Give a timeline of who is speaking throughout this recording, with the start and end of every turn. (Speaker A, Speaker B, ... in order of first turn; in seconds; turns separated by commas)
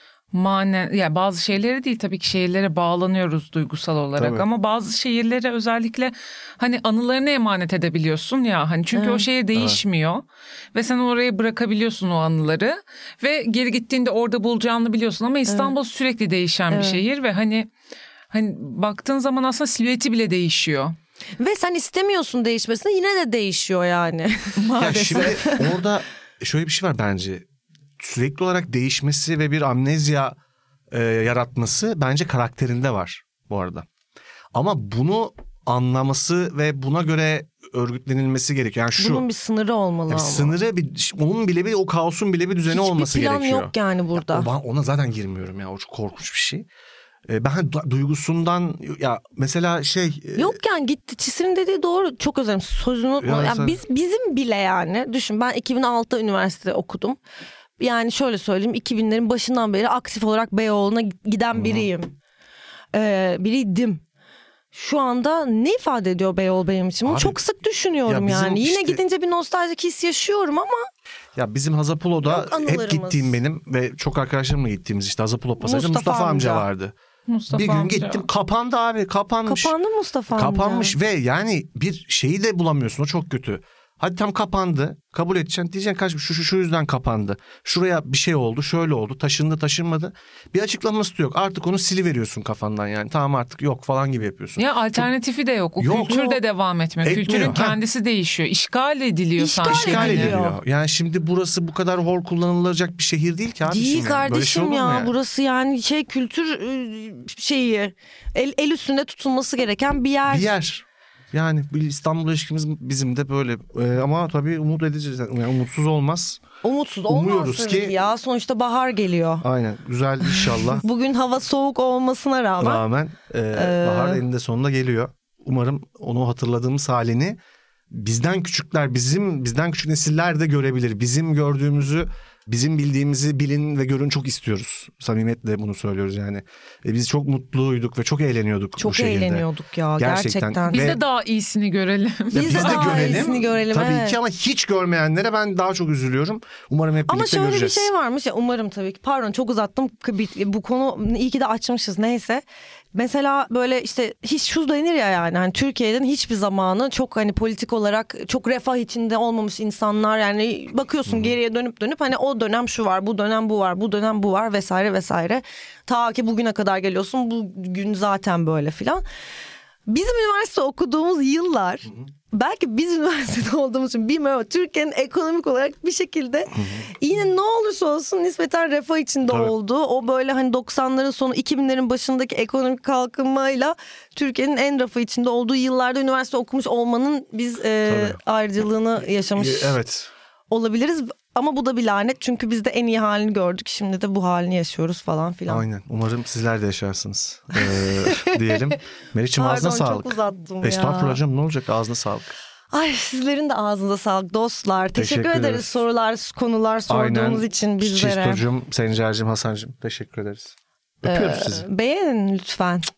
Speaker A: 0.3-17.7, Speaker B: 4.2-4.5, Speaker C: 8.9-9.3, Speaker B: 9.5-9.8, Speaker C: 15.5-15.7, Speaker C: 16.7-17.0, Speaker A: 18.3-20.9, Speaker C: 21.4-25.7, Speaker A: 24.6-25.3, Speaker B: 24.8-27.4, Speaker B: 28.0-30.3, Speaker B: 30.9-33.9, Speaker B: 34.5-39.2, Speaker C: 39.0-40.6, Speaker B: 40.1-46.7, Speaker C: 42.7-44.5, Speaker B: 47.3-50.6, Speaker C: 50.4-57.2, Speaker B: 53.2-53.8, Speaker C: 57.8-62.1, Speaker B: 61.5-61.9, Speaker C: 62.9-64.0, Speaker C: 64.7-70.9, Speaker B: 67.0-67.4, Speaker B: 68.1-69.0, Speaker B: 71.3-76.9, Speaker C: 72.2-73.4, Speaker C: 75.6-76.7, Speaker A: 77.3-78.2, Speaker B: 77.5-79.7, Speaker C: 79.5-81.0, Speaker B: 80.3-95.1, Speaker A: 94.6-100.4, Speaker B: 95.8-96.4, Speaker B: 97.0-97.8, Speaker C: 99.4-100.6, Speaker B: 99.6-105.1, Speaker C: 103.7-110.5, Speaker B: 110.3-116.4, Speaker C: 116.6-119.4, Speaker B: 117.1-117.9, Speaker B: 119.4-120.8, Speaker C: 120.6-122.8, Speaker B: 122.6-127.4, Speaker C: 123.5-124.2, Speaker B: 127.9-139.4, Speaker C: 138.8-141.0, Speaker B: 140.0-141.0, Speaker A: 140.7-143.3, Speaker B: 142.3-147.9, Speaker C: 142.3-144.2, Speaker C: 147.1-169.0, Speaker B: 161.1-161.3, Speaker C: 169.9-189.8, Speaker B: 176.5-176.9, Speaker B: 179.3-179.5, Speaker B: 187.8-188.2, Speaker B: 189.3-190.1, Speaker C: 190.5-195.6, Speaker B: 195.5-202.3, Speaker C: 197.6-198.6, Speaker C: 199.4-201.2, Speaker C: 202.7-208.4, Speaker B: 204.9-205.8, Speaker B: 206.9-211.6, Speaker C: 211.0-212.9